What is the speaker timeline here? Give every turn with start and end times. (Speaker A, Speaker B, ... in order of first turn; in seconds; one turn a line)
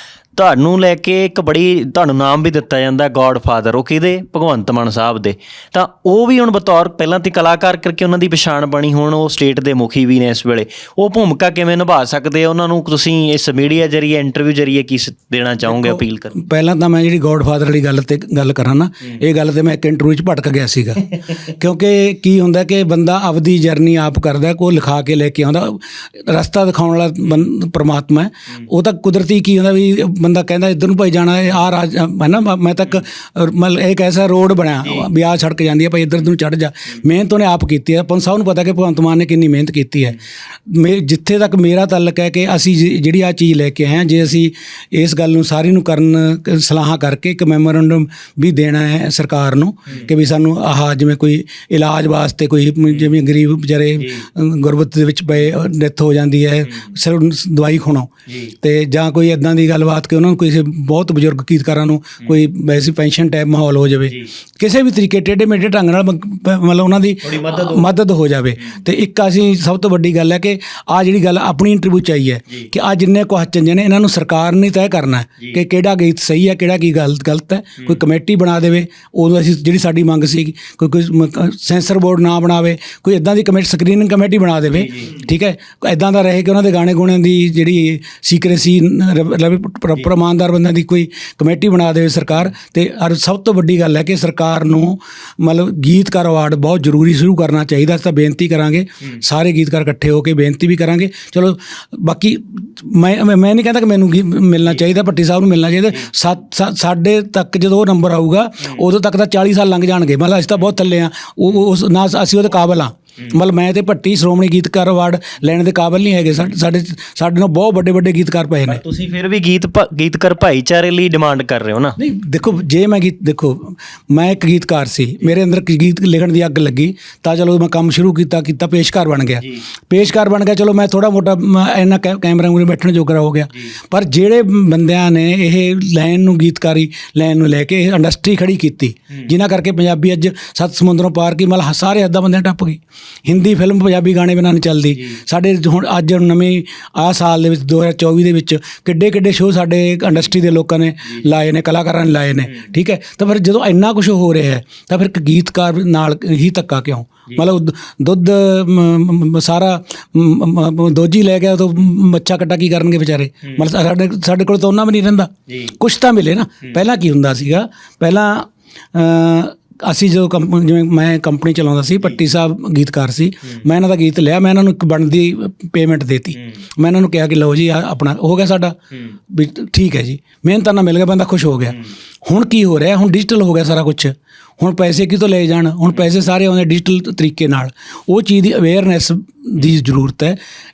Speaker A: 0.3-16.4
Speaker B: 15.7-58.1
Speaker A: 52.9-53.1
Speaker A: 54.0-54.3
Speaker A: 56.7-57.0
Speaker A: 58.3-58.5
Speaker B: 58.6-118.8
Speaker A: 67.2-68.0
Speaker A: 84.7-85.2
Speaker A: 118.7-122.0
Speaker B: 122.0-178.8
Speaker A: 129.4-129.7
Speaker A: 133.5-133.8
Speaker A: 152.5-152.7
Speaker A: 163.4-163.7
Speaker A: 165.5-165.8
Speaker A: 176.4-176.6
Speaker A: 178.9-179.2
Speaker B: 179.3-190.4